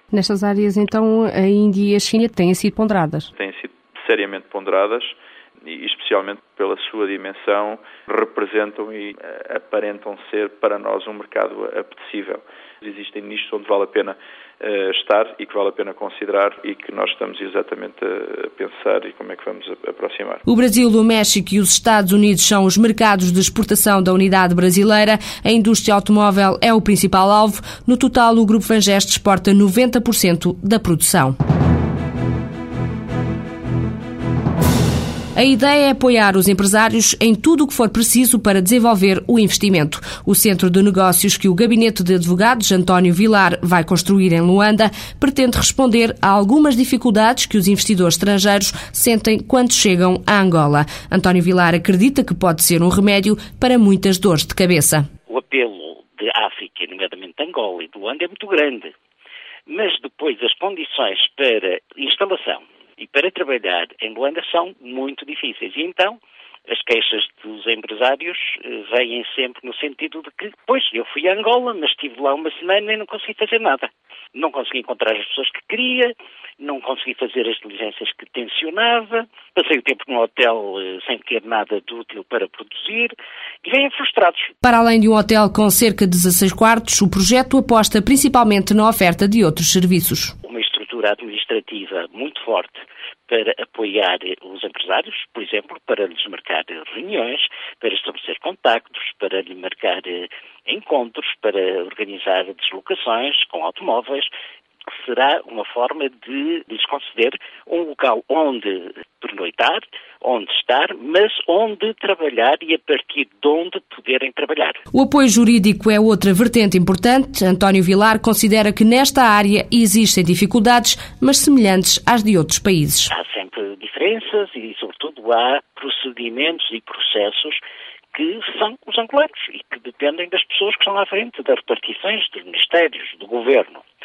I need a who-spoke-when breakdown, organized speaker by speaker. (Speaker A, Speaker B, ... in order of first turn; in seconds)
Speaker A: 0.1-3.3, 20.4-31.3, 35.3-55.1, 84.6-90.3, 114.9-123.1
Speaker B: 3.3-20.4
Speaker C: 55.3-58.9, 59.7-83.1, 83.6-84.5, 90.4-104.3, 104.9-114.8, 123.1-127.6, 128.1-133.8